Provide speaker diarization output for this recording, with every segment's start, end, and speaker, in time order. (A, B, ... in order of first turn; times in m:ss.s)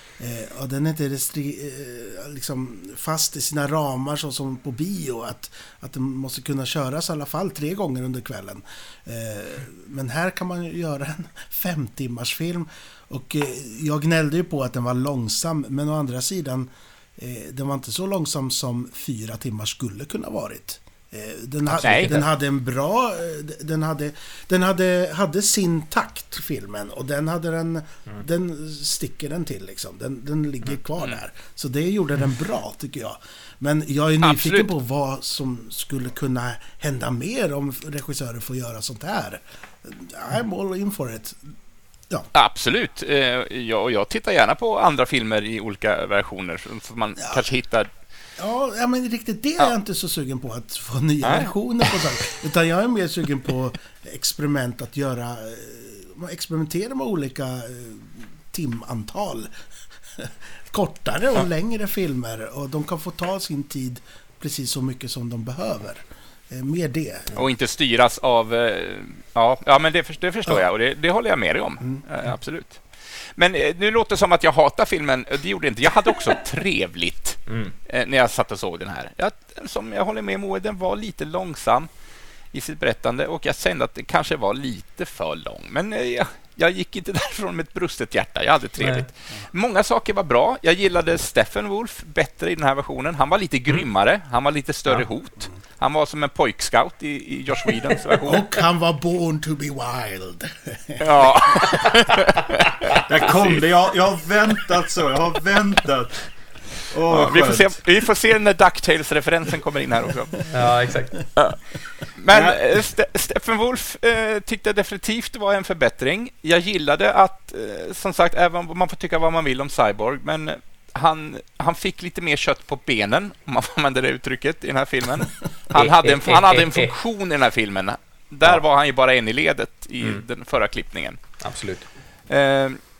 0:00.2-0:41.5 A
0:21.7-0:22.2 B
0:34.2-0:34.7 B
0:42.3-0:47.9 B
0:48.4-0:59.5 A
0:51.2-0:52.0 B
1:00.2-1:07.4 A
1:07.3-1:21.9 B
1:17.5-1:17.7 C
1:22.5-1:38.5 B
1:28.8-1:29.0 C
1:38.2-1:41.7 A
1:41.0-1:43.6 B
1:43.0-1:47.7 D
1:47.1-1:50.5 B
1:50.5-1:51.2 C
1:51.4-2:11.2 B
1:52.3-1:52.6 D
2:05.7-2:06.9 C
2:11.4-2:11.8 C
2:12.3-2:12.8 B